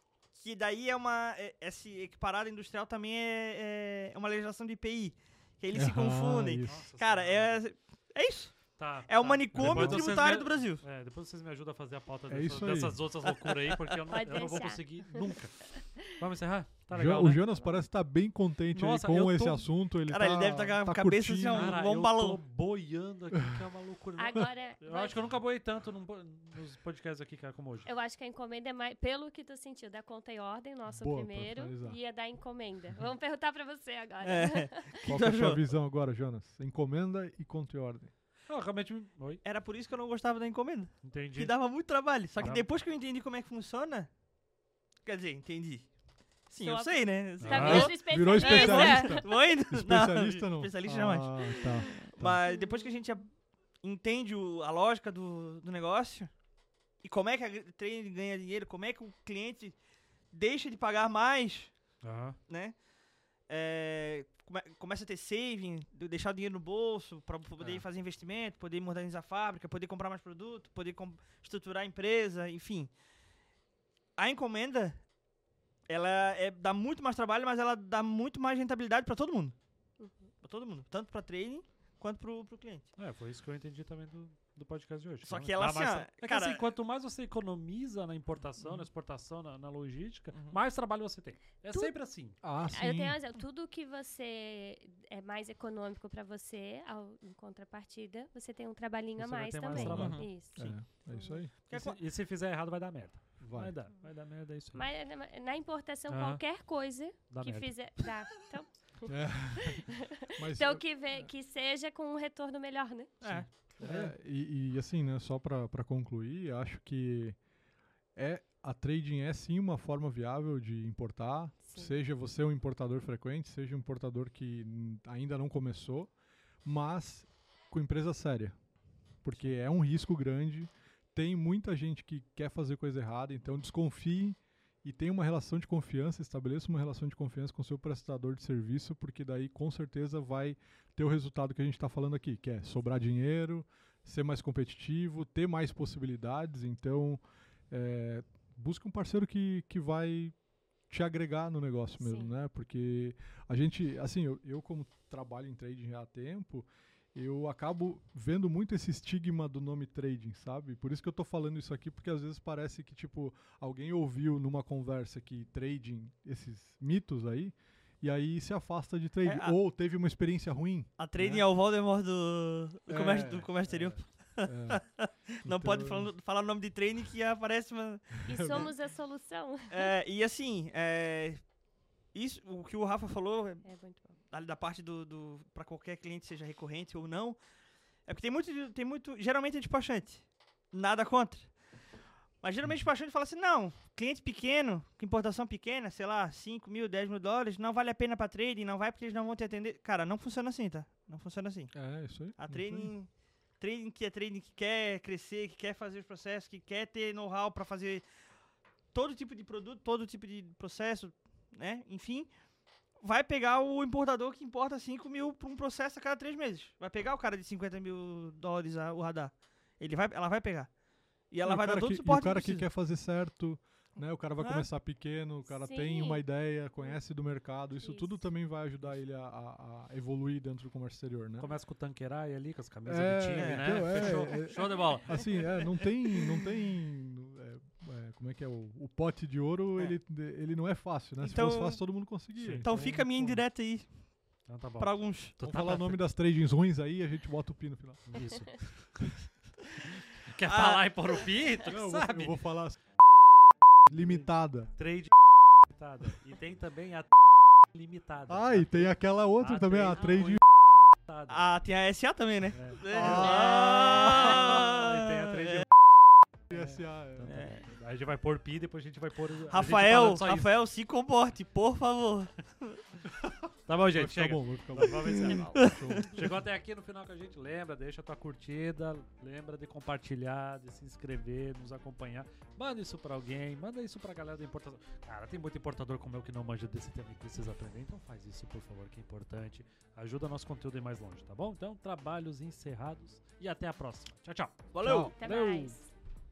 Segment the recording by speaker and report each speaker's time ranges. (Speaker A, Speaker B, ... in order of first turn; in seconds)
Speaker A: 0.3-10.8, 13.4-13.9, 20.1-22.4, 34.2-35.6, 39.4-44.1, 45.0-56.3, 57.0-59.8, 60.3-72.9, 74.2-75.1, 75.9-79.5, 80.4-82.9, 85.2-86.6, 90.3-90.6, 100.0-100.3, 101.7-102.0, 113.2-114.1, 169.2-169.6, 171.0-178.7, 179.7-181.5, 182.1-187.4, 188.0-208.1, 208.9-212.3, 213.0-222.6, 224.4-224.7, 233.4-234.5, 241.2-245.4, 250.4-251.3, 261.3-265.6, 267.3-267.6, 269.5-272.8, 275.1-276.1, 294.7-295.1
Speaker B: 5.7-6.9, 9.6-10.1, 12.3-13.1, 16.9-21.8, 30.9-32.0, 35.0-38.1, 47.6-52.4, 92.4-93.2, 99.7-101.5, 103.4-103.8, 109.1-111.3, 113.8-117.4, 118.1-171.4, 172.9-174.8, 175.4-176.1, 178.3-178.6, 201.7-202.9, 221.4-231.5, 232.8-243.3, 245.4-248.5, 251.7-252.8, 253.9-254.8, 258.3-260.4, 262.8-263.7, 266.5-267.4, 273.9-276.3, 294.8-295.1
Speaker C: 6.6-7.7, 8.8-17.8, 18.7-19.8, 21.5-27.9, 38.5-39.4, 41.0-42.6, 47.4-48.0, 62.0-62.4, 83.0-92.4, 99.2-100.8, 101.7-104.9, 106.1-108.2, 113.2-113.5, 231.4-235.7, 242.4-243.4, 244.4-246.0, 248.1-249.2, 250.0-252.4, 254.7-260.4, 260.9-261.4, 262.5-265.7, 266.5-270.6, 273.7-295.8
Speaker D: 14.1-15.2, 24.2-25.2, 27.8-34.9, 46.6-49.4, 52.0-52.9, 80.0-80.3, 91.7-101.4, 104.7-109.5, 110.5-113.2, 121.6-121.9, 152.0-152.3, 178.2-179.9, 183.6-184.1, 225.5-226.2, 227.8-228.2, 263.1-264.1, 295.1-295.9